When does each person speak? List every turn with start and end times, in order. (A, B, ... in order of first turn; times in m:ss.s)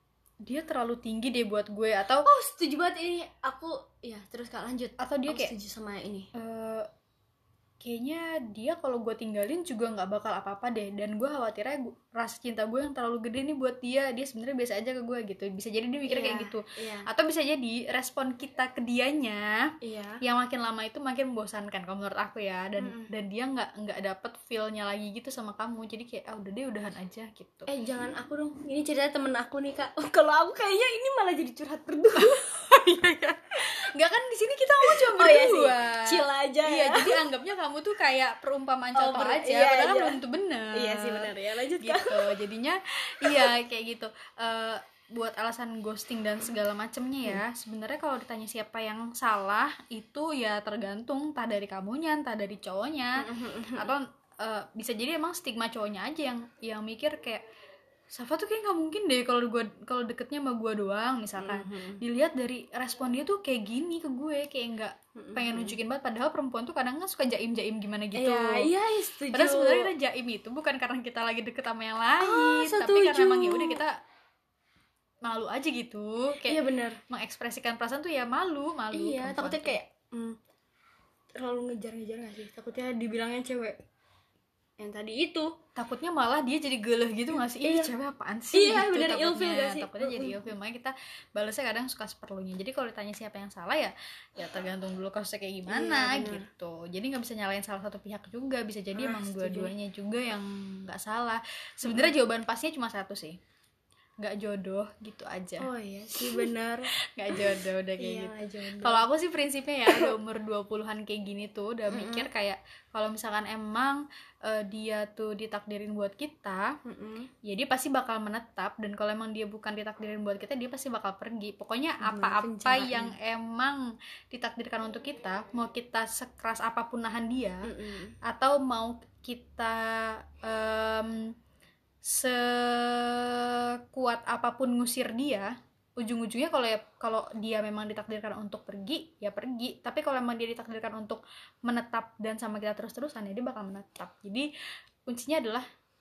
0:00.4-0:02.3 A
0:02.2-0:06.3 B
0:05.0-0:05.5 A
0:06.3-0:06.9 A
0:07.8-0:19.7 A
0:16.1-0:17.1 B
0:19.8-0:20.2 B
0:20.2-0:27.7 A
0:22.8-0:23.1 B
0:27.7-0:32.4 B
0:32.2-0:57.4 A
0:34.9-0:37.2 B
0:38.9-0:40.2 B
0:40.7-0:42.4 B
0:53.2-0:53.9 B
0:58.1-1:08.7 A
1:01.4-1:02.0 B
1:05.2-1:05.7 B
1:08.1-1:09.9 B
1:09.3-1:14.0 A
1:12.2-1:13.8 B
1:15.2-1:19.8 A
1:16.4-1:17.0 B
1:18.9-1:20.4 B
1:21.4-1:23.8 B
1:24.8-1:25.5 B
1:25.8-1:43.4 A
1:27.6-1:27.9 B
1:28.5-1:30.4 B
1:35.7-1:36.4 B
1:38.9-1:39.7 B
1:41.8-1:42.1 B
1:44.2-1:45.7 A
1:45.6-1:49.0 B
1:46.2-1:46.5 A
1:47.0-1:56.8 A
1:51.9-1:52.3 B
1:56.8-1:57.3 B
1:57.4-2:07.7 A
2:02.0-2:03.1 B
2:07.6-2:08.2 B
2:08.2-2:11.3 A
2:12.0-2:24.5 A
2:25.0-2:25.6 A